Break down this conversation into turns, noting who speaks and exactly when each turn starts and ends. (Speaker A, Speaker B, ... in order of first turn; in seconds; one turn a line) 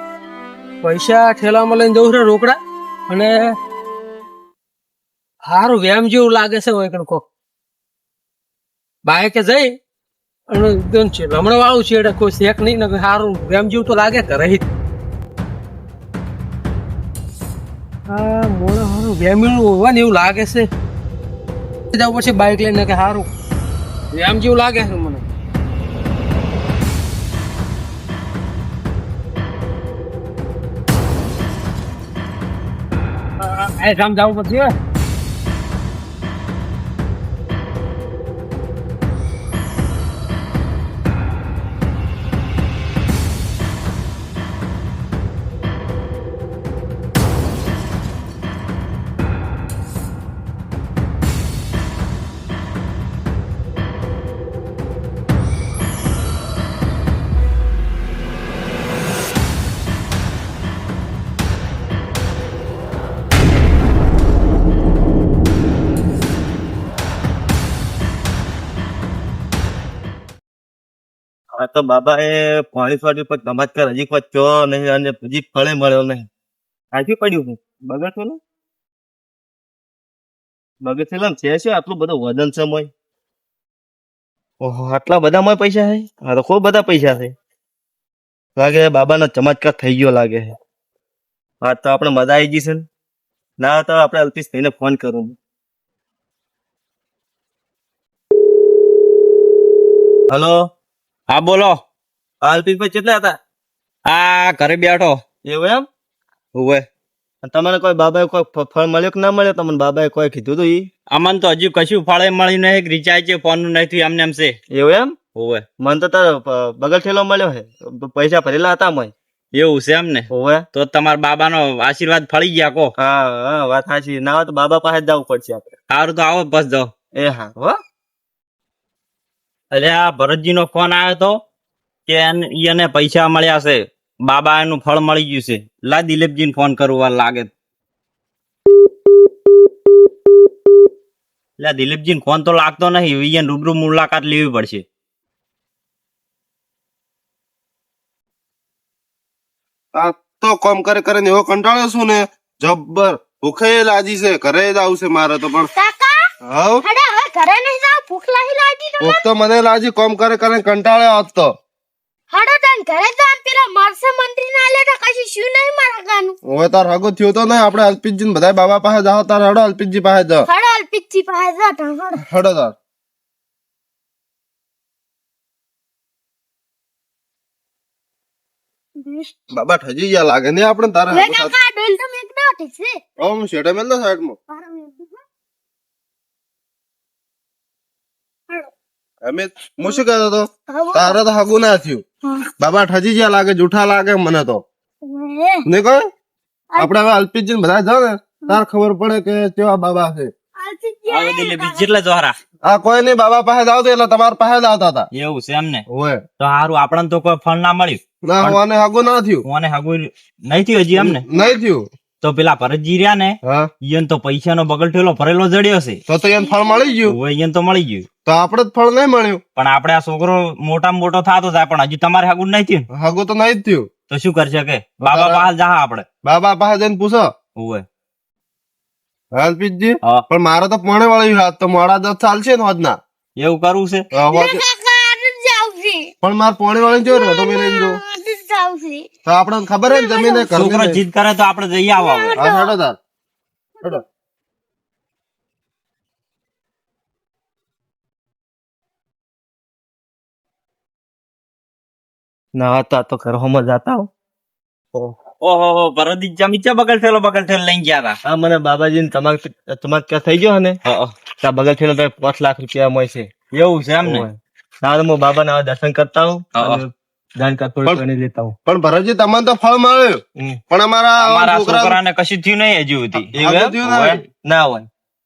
Speaker A: 0.8-3.6
Speaker A: 5.4-7.2
Speaker A: 9.1-9.8
Speaker A: 10.5-14.6
Speaker A: 18.1-20.7
Speaker A: 21.9-23.3
Speaker A: 24.1-25.2
Speaker A: 33.4-34.7
Speaker B: 71.6-76.3
Speaker B: 76.9-78.4
Speaker B: 80.8-82.9
Speaker B: 84.6-87.3
Speaker B: 88.6-90.6
Speaker B: 91.6-92.8
Speaker B: 93.6-95.4
Speaker B: 100.3-100.7
Speaker C: 101.3-101.8
Speaker B: 102.4-103.4
Speaker C: 104.1-105.2
Speaker B: 105.5-105.9
Speaker B: 107.4-110.9
Speaker C: 111.1-114.6
Speaker B: 114.7-115.2
Speaker C: 115.3-115.6
Speaker B: 115.8-119.1
Speaker C: 119.5-122.9
Speaker B: 120.3-120.7
Speaker B: 123.0-125.7
Speaker C: 125.9-126.9
Speaker B: 127.2-127.8
Speaker C: 129.7-131.4
Speaker C: 132.1-137.5
Speaker C: 141.6-144.8
Speaker D: 149.9-155.7
Speaker E: 155.8-156.2
Speaker D: 156.5-156.8
Speaker E: 156.8-159.2
Speaker D: 159.0-161.5
Speaker E: 162.3-166.4
Speaker D: 166.5-170.4
Speaker E: 170.5-172.2
Speaker D: 172.3-172.8
Speaker E: 179.0-179.4
Speaker D: 179.5-181.5
Speaker E: 181.1-183.0
Speaker D: 183.2-184.4
Speaker E: 184.5-185.2
Speaker D: 189.2-192.0
Speaker E: 190.7-191.2
Speaker D: 192.6-194.6
Speaker E: 195.0-195.7
Speaker D: 195.7-196.0
Speaker D: 196.8-200.3
Speaker E: 200.6-201.9
Speaker C: 201.1-202.3
Speaker D: 202.7-205.1
Speaker C: 205.1-205.8
Speaker D: 205.9-206.2
Speaker C: 206.4-208.6
Speaker D: 208.3-209.4
Speaker C: 209.4-211.2
Speaker D: 211.0-211.8
Speaker C: 212.2-216.0
Speaker D: 213.4-213.7
Speaker D: 216.1-217.2
Speaker E: 216.4-216.9
Speaker C: 217.1-218.1
Speaker D: 218.2-219.4
Speaker C: 219.6-222.9
Speaker D: 222.9-223.9
Speaker C: 224.1-226.1
Speaker D: 225.0-225.5
Speaker D: 226.2-227.3
Speaker C: 227.6-227.8
Speaker D: 229.3-233.0
Speaker C: 233.4-234.0
Speaker D: 234.2-234.6
Speaker E: 234.3-236.1
Speaker D: 236.2-238.0
Speaker E: 237.1-239.1
Speaker D: 239.3-241.0
Speaker E: 239.9-240.5
Speaker C: 240.6-242.4
Speaker E: 242.0-242.7
Speaker D: 242.4-243.0
Speaker B: 252.6-254.1
Speaker C: 255.4-258.2
Speaker B: 258.2-263.3
Speaker C: 260.9-261.1
Speaker C: 263.5-264.3
Speaker B: 264.0-266.9
Speaker C: 266.6-266.8
Speaker B: 267.4-268.6
Speaker D: 268.7-272.0
Speaker C: 271.2-273.4
Speaker B: 273.3-274.9
Speaker D: 273.4-274.2